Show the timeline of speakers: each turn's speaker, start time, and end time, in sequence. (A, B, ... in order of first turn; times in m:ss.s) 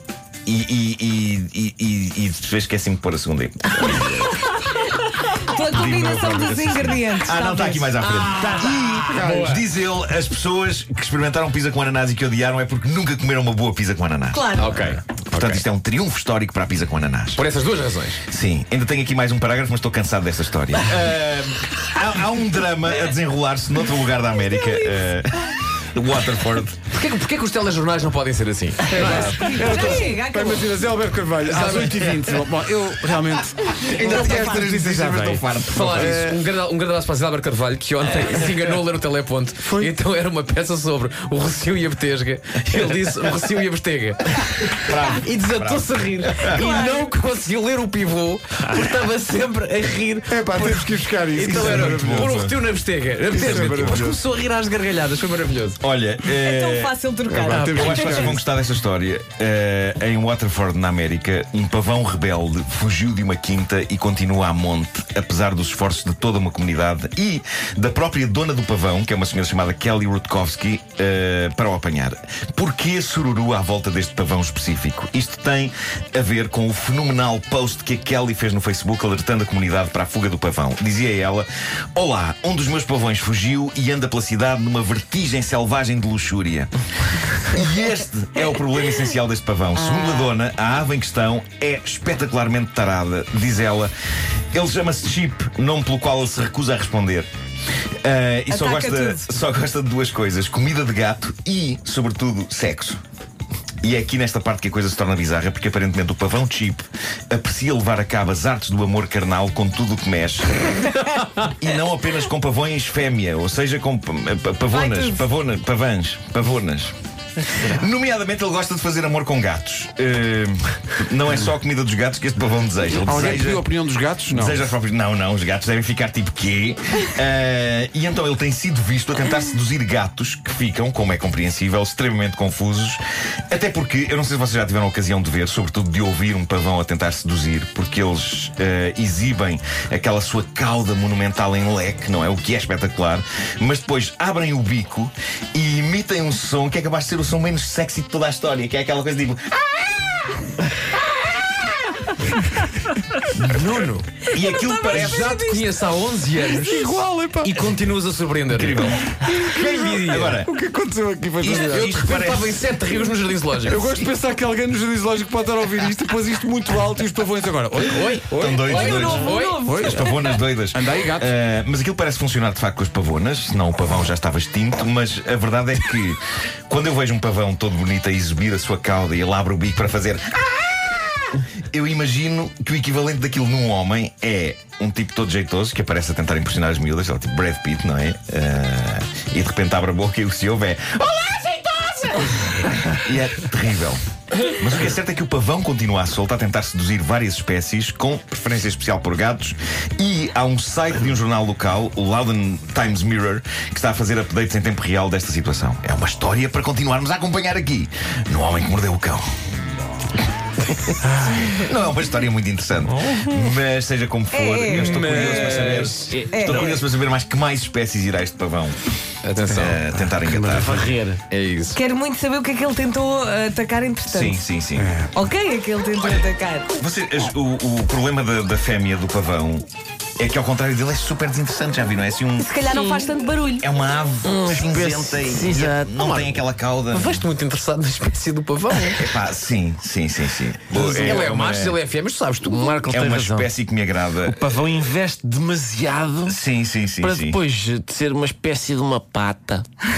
0:00.4-0:04.2 A
0:03.8-0:09.0 B
0:05.7-0:17.4 A
0:08.1-0:09.6 C
0:08.6-0:09.5 D
0:14.3-0:14.8 B
0:14.6-0:15.6 C
0:17.4-0:18.2 C
0:18.3-0:26.8 A
0:24.5-0:24.9 B
0:26.9-0:29.3 C
0:28.9-0:36.4 D
0:28.9-0:30.0 A
0:28.9-0:30.8 B
0:31.4-0:32.3 C
0:33.8-0:36.2 A
0:33.9-0:34.6 B
0:35.7-0:55.8 C
0:39.6-0:39.9 D
0:44.7-0:46.6 A
0:46.5-0:47.1 B
0:50.3-0:52.4 D
0:51.4-0:52.6 A
0:53.3-0:54.2 D
0:53.4-0:54.1 A
0:55.8-1:26.7 A
0:56.3-0:58.3 B
0:57.3-0:58.4 D
1:27.4-1:33.9 A
1:29.9-1:30.3 B
1:34.5-1:37.3 A
1:38.0-1:43.0 A
1:38.5-1:39.3 B
1:43.8-1:50.6 A
1:51.6-1:56.9 A
1:54.7-1:55.2 B
1:57.5-2:03.7 A
2:03.0-2:04.7 D
2:04.3-2:30.3 A
2:33.3-2:34.2 C
2:34.3-2:35.3 A
2:34.3-2:35.7 B
2:34.9-2:40.4 C
2:36.6-2:37.6 D
2:38.5-2:40.5 A
2:40.4-2:42.0 D
2:41.4-2:42.6 A
2:41.5-2:43.8 C
2:43.6-2:51.3 D
2:47.8-2:50.1 C
2:48.3-3:29.2 A
2:48.8-2:49.7 B
3:31.1-3:31.5 D
3:31.2-3:38.8 A
3:32.9-3:33.5 E
3:34.3-3:35.5 B
3:34.7-3:36.1 C
3:35.4-3:36.8 E
3:36.3-3:36.7 B
3:39.2-3:39.8 C
3:39.5-3:41.0 D
3:39.5-3:40.8 A
3:40.5-3:41.2 E
3:41.3-3:41.8 C
3:41.7-3:44.4 B
3:44.1-3:44.9 A
3:44.8-3:45.1 D
3:45.1-3:46.7 B
3:46.0-3:46.3 A
3:46.8-3:49.7 A
3:50.2-3:52.6 A
3:52.4-3:53.6 B
3:52.7-3:53.1 E
3:53.6-3:57.2 A
3:54.2-3:56.0 E
3:56.0-3:59.1 C
3:59.0-4:01.8 A
4:00.7-4:03.5 C
4:02.5-4:03.4 E
4:02.9-4:04.4 A
4:04.2-4:06.4 E
4:06.3-4:07.4 A
4:07.0-4:09.6 E